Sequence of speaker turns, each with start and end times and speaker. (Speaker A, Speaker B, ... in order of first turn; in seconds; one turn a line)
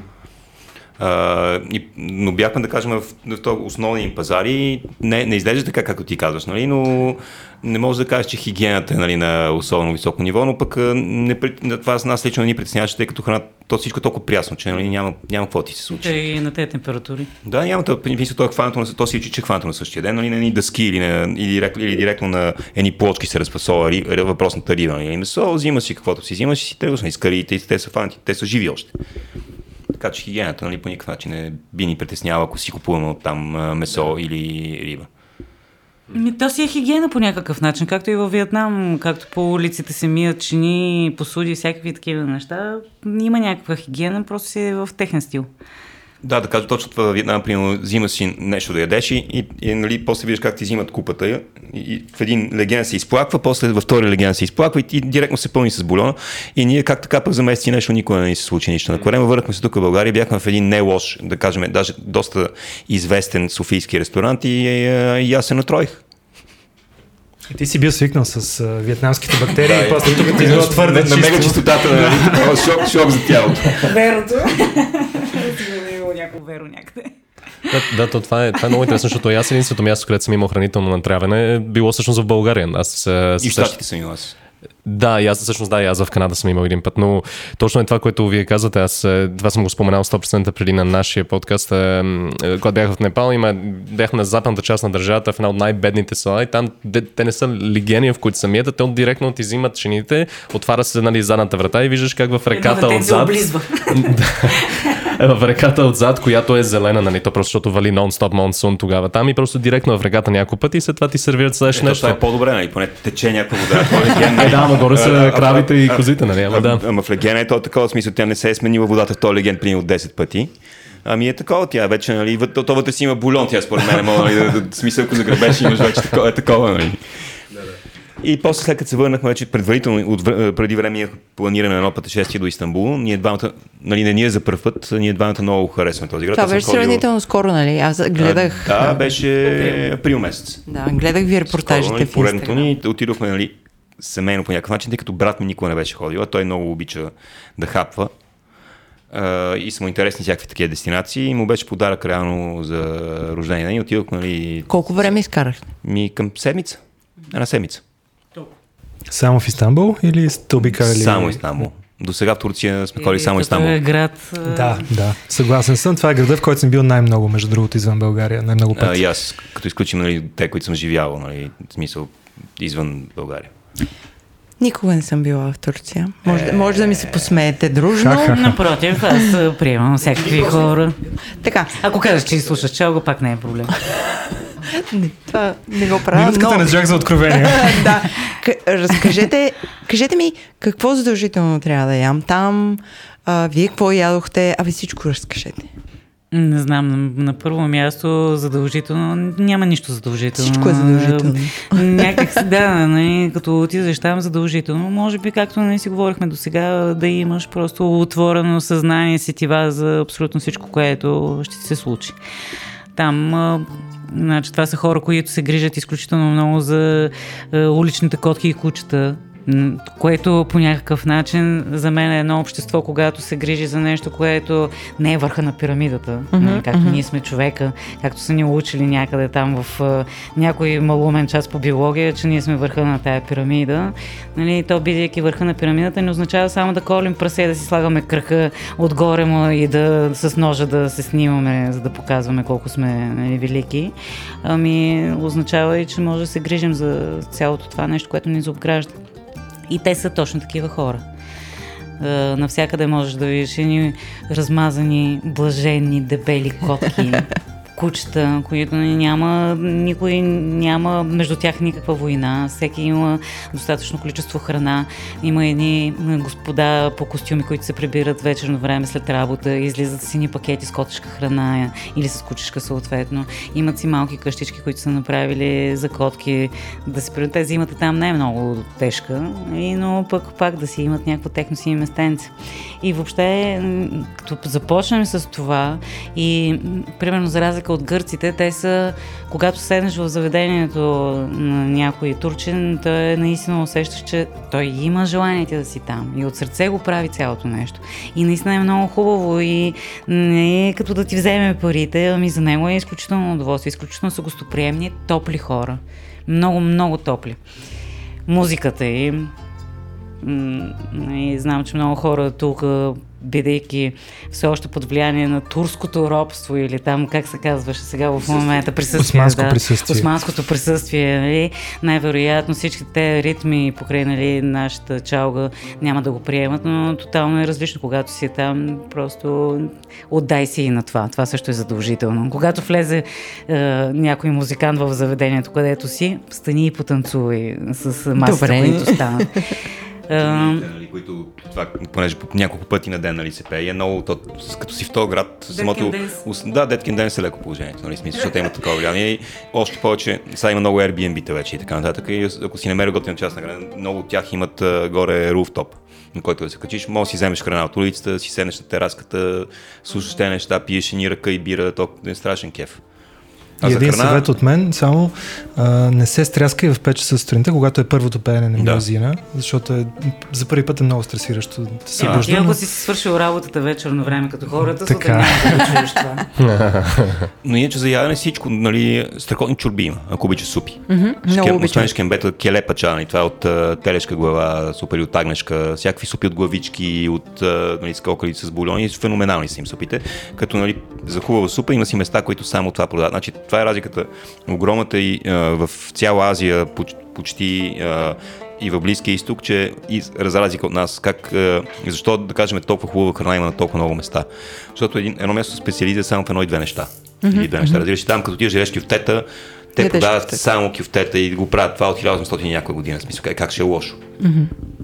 Speaker A: 1.0-16.2
Speaker B: 16.0-17.3
Speaker A: 17.4-28.9
Speaker A: 30.0-35.1
Speaker B: 36.1-45.5
Speaker A: 46.2-66.0
Speaker C: 67.5-72.7
Speaker A: 69.6-74.0
Speaker B: 73.7-77.1
Speaker D: 77.7-83.8
Speaker A: 83.4-84.3
Speaker D: 84.8-112.2
Speaker B: 102.5-105.0
Speaker A: 111.7-120.5
Speaker D: 114.2-116.9
Speaker A: 121.0-127.1
Speaker A: 128.2-137.0
Speaker E: 136.3-139.1
Speaker A: 138.2-140.6
Speaker E: 140.7-142.7
Speaker A: 141.5-148.1
Speaker A: 149.1-155.1
Speaker E: 154.7-155.7
Speaker A: 155.8-157.8
Speaker C: 159.1-161.4
Speaker A: 160.6-163.8
Speaker B: 163.0-164.8
Speaker C: 164.5-169.0
Speaker A: 168.7-173.5
Speaker E: 174.6-178.6
Speaker A: 176.3-177.4
Speaker C: 178.0-178.6
Speaker B: 178.1-181.0
Speaker E: 181.3-181.8
Speaker B: 181.7-183.8
Speaker E: 184.6-195.7
Speaker C: 186.1-188.1
Speaker B: 196.3-212.2
Speaker E: 200.4-202.3
Speaker B: 213.0-249.0
Speaker E: 226.3-227.0
Speaker B: 249.7-251.0
Speaker B: 252.0-307.4
Speaker B: 308.3-309.3
Speaker B: 310.2-339.5
Speaker C: 319.0-320.1
Speaker E: 338.2-339.3
Speaker B: 340.1-340.7
Speaker A: 340.1-362.8
Speaker B: 345.5-346.2
Speaker A: 363.6-364.3
Speaker C: 363.6-372.6
Speaker A: 368.6-368.9
Speaker B: 372.0-376.3
Speaker A: 372.0-372.3
Speaker C: 374.8-375.8
Speaker D: 376.4-377.3
Speaker A: 377.4-414.0
Speaker E: 380.9-381.9
Speaker E: 407.2-407.8
Speaker E: 409.8-410.4
Speaker E: 414.2-414.5